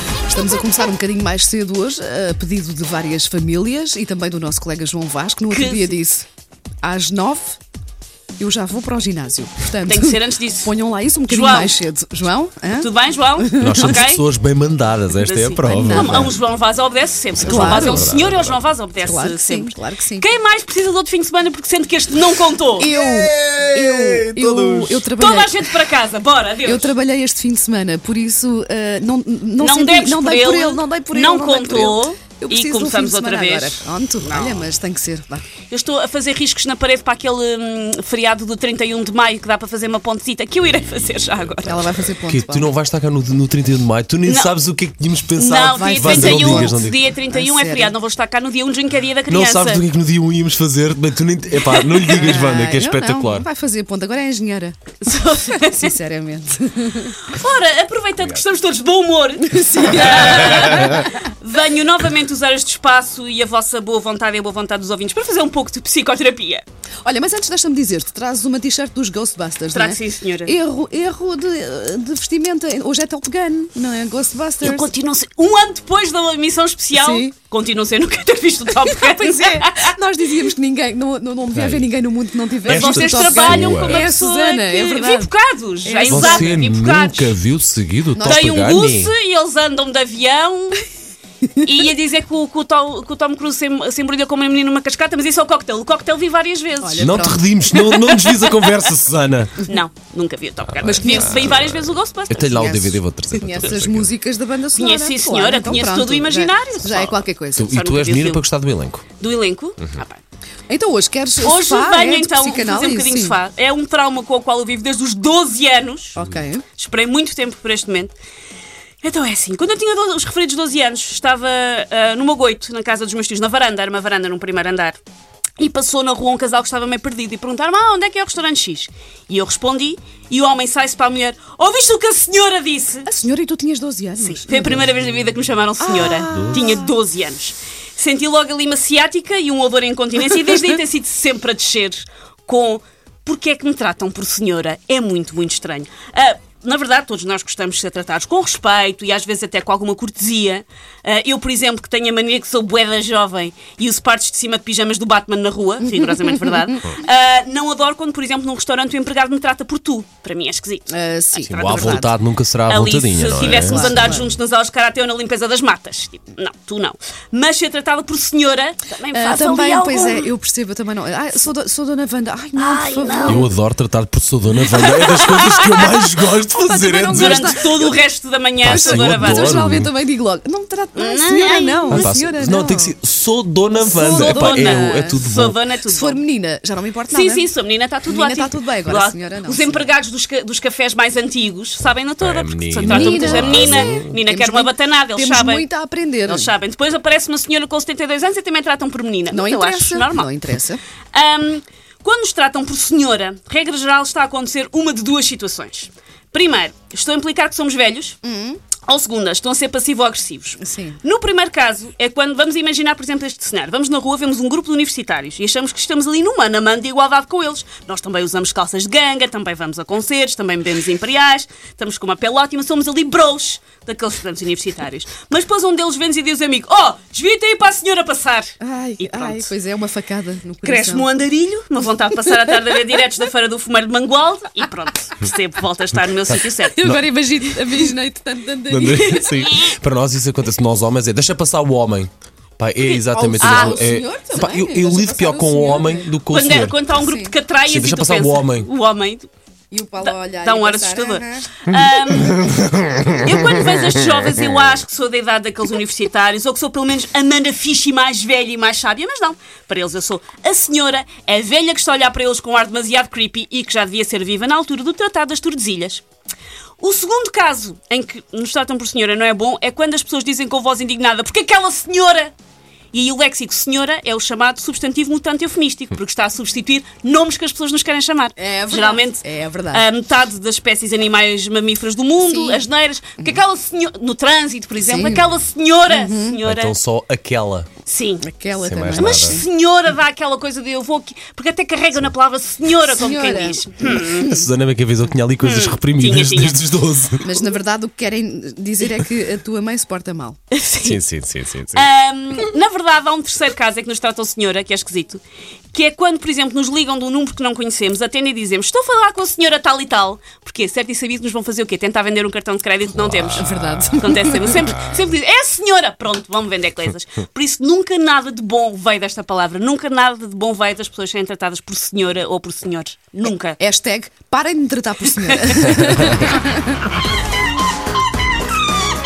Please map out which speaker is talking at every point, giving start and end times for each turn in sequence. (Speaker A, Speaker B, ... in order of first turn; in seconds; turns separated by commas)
Speaker A: 0.3-6.2, Speaker B: 5.5-6.0, Speaker A: 6.8-7.6, Speaker A: 8.4-14.0, Speaker B: 9.8-10.7, Speaker B: 11.3-11.8, Speaker B: 12.8-14.2, Speaker C: 13.6-16.4, Speaker B: 15.2-22.9, Speaker A: 15.6-16.3, Speaker C: 17.3-18.6, Speaker A: 17.4-18.1, Speaker A: 19.0-20.3, Speaker A: 22.8-25.7, Speaker C: 22.9-25.0, Speaker B: 25.2-26.9, Speaker A: 26.6-35.4, Speaker B: 29.6-34.7, Speaker B: 35.7-41.9, Speaker A: 41.6-42.7, Speaker C: 42.3-47.0, Speaker B: 44.2-44.5, Speaker B: 45.3-49.8, Speaker A: 45.7-47.9, Speaker C: 49.3-53.5, Speaker B: 51.6-52.4, Speaker A: 52.0-54.8, Speaker B: 55.0-55.9, Speaker A: 55.5-57.2, Speaker B: 57.2-66.6, Speaker A: 59.5-61.1, Speaker A: 67.0-74.9, Speaker B: 69.7-70.5, Speaker B: 74.6-79.9, Speaker A: 76.9-77.3, Speaker A: 78.8-85.3, Speaker C: 81.5-81.9, Speaker C: 82.7-84.0, Speaker B: 82.7-87.3, Speaker A: 85.8-86.6, Speaker C: 86.1-89.1, Speaker A: 88.1-88.8, Speaker B: 88.2-90.8, Speaker B: 91.6-98.9, Speaker A: 96.8-97.6, Speaker C: 97.0-99.5, Speaker B: 99.6-102.5, Speaker C: 100.6-104.1, Speaker A: 100.8-101.6, Speaker A: 102.4-107.7, Speaker B: 104.7-108.4, Speaker C: 107.5-109.0, Speaker B: 109.2-110.2, Speaker A: 110.7-113.4, Speaker B: 111.4-116.2, Speaker A: 116.2-116.6, Speaker B: 116.8-118.1, Speaker B: 119.0-125.0, Speaker B: 125.6-133.1, Speaker A: 133.1-134.9, Speaker B: 134.2-162.1, Speaker A: 135.8-136.9, Speaker C: 136.3-136.6, Speaker A: 160.9-162.1, Speaker C: 161.5-164.2, Speaker B: 162.6-170.3, Speaker A: 163.3-164.3, Speaker A: 169.1-173.5, Speaker B: 172.6-173.5, Speaker C: 173.2-177.6, Speaker B: 174.7-176.1, Speaker A: 176.5-178.0, Speaker B: 177.1-179.7, Speaker C: 178.6-179.9, Speaker A: 178.7-182.9, Speaker B: 180.9-182.1, Speaker C: 181.9-185.6, Speaker A: 183.8-185.2, Speaker B: 183.9-186.2, Speaker A: 185.8-187.5, Speaker B: 187.1-195.6, Speaker A: 188.0-189.9, Speaker C: 192.2-194.1, Speaker A: 192.8-196.5, Speaker B: 196.2-200.3, Speaker A: 199.3-200.8, Speaker B: 201.1-208.2, Speaker A: 208.2-208.6, Speaker B: 208.8-229.5, Speaker A: 210.6-211.0, Speaker A: 228.6-231.1, Speaker B: 230.6-236.8, Speaker A: 236.7-239.4, Speaker C: 238.7-246.8, Speaker B: 239.2-239.7, Speaker B: 242.8-243.8, Speaker A: 243.1-246.2, Speaker B: 246.3-249.3, Speaker A: 246.8-247.4, Speaker C: 247.7-248.7, Speaker A: 249.7-251.7, Speaker B: 250.0-266.0, Speaker B: 266.8-272.3, Speaker B: 272.9-286.8, Speaker A: 278.4-279.9, Speaker A: 282.2-282.6, Speaker A: 284.8-285.3, Speaker A: 285.9-286.4, Speaker C: 286.4-287.7, Speaker B: 287.9-288.2, Speaker A: 288.2-289.4, Speaker C: 288.6-289.4, Speaker B: 288.9-294.4, Speaker A: 292.8-294.3, Speaker C: 294.1-297.3, Speaker B: 295.4-296.6, Speaker A: 297.2-300.4, Speaker B: 300.5-301.0, Speaker C: 300.8-301.9, Speaker B: 301.7-305.2, Speaker B: 305.7-323.6, Speaker C: 312.9-313.3, Speaker A: 313.3-314.7, Speaker A: 323.6-326.6, Speaker B: 325.3-326.3